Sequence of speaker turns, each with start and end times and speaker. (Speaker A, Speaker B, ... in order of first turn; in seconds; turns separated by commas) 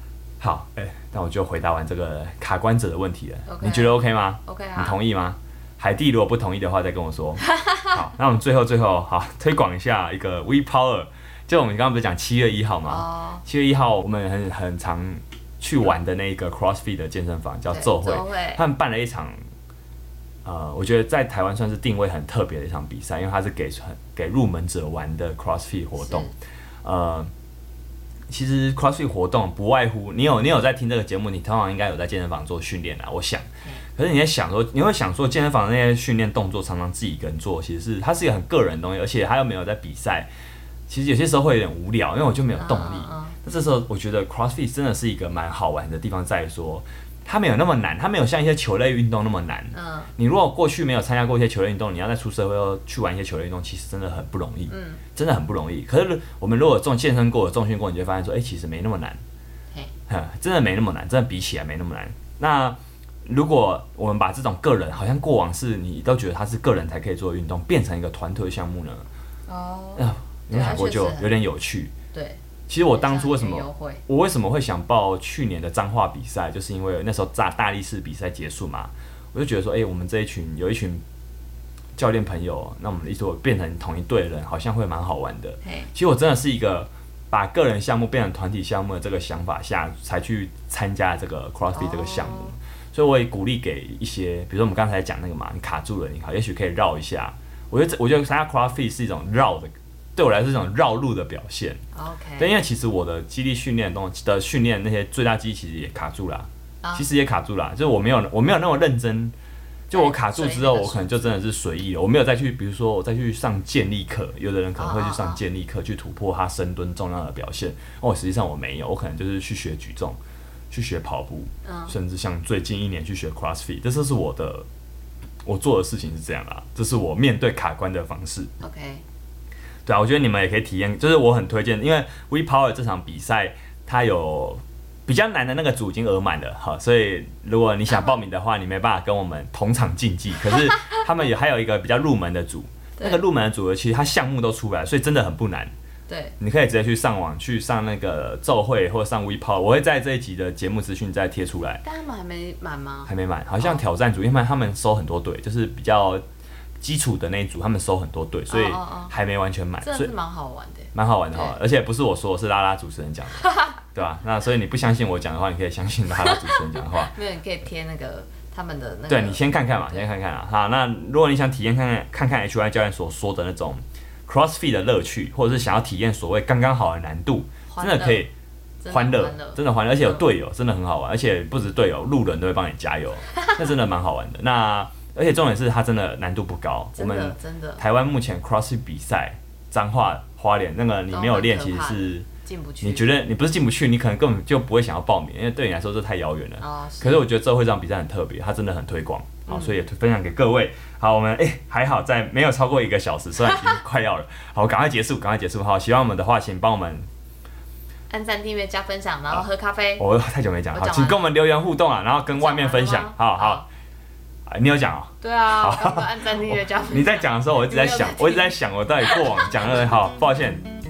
Speaker A: 0.4-19.4, Speaker B: 3.5-5.0, Speaker B: 7.5-7.9, Speaker B: 12.9-13.4, Speaker B: 17.7-18.6, Speaker A: 20.4-26.3, Speaker B: 26.0-26.3, Speaker A: 26.8-27.3, Speaker A: 28.3-40.3, Speaker A: 40.9-59.2, Speaker B: 42.5-43.4, Speaker B: 49.7-50.1, Speaker B: 54.7-55.0, Speaker A: 60.1-69.1, Speaker B: 69.5-71.4, Speaker A: 70.0-71.9, Speaker B: 72.1-74.0, Speaker A: 72.7-81.0, Speaker A: 82.0-101.8, Speaker B: 85.6-85.9, Speaker B: 91.7-92.6, Speaker B: 101.9-102.5, Speaker A: 102.4-109.3, Speaker A: 109.9-120.2, Speaker B: 109.9-111.3, Speaker B: 114.8-115.4, Speaker A: 120.7-124.7, Speaker B: 121.7-122.0, Speaker A: 125.5-128.5, Speaker B: 128.6-129.0, Speaker A: 129.9-145.7, Speaker B: 137.9-138.2, Speaker B: 143.0-143.2, Speaker B: 146.1-146.3, Speaker A: 146.4-151.8, Speaker B: 151.8-153.8, Speaker A: 153.1-156.2, Speaker A: 156.8-160.1, Speaker B: 158.5-159.1, Speaker B: 159.8-161.6, Speaker A: 160.9-167.1, Speaker B: 163.4-163.8, Speaker B: 166.2-170.1, Speaker A: 169.1-178.3, Speaker B: 177.7-178.2, Speaker B: 178.8-180.2, Speaker A: 178.9-192.3, Speaker B: 187.0-187.8, Speaker B: 191.1-193.1, Speaker A: 192.8-207.1, Speaker B: 196.6-197.2, Speaker B: 199.5-199.8, Speaker B: 208.1-210.1, Speaker A: 210.0-213.7, Speaker B: 210.7-211.3, Speaker B: 212.4-213.7, Speaker A: 214.5-220.7, Speaker B: 215.2-219.6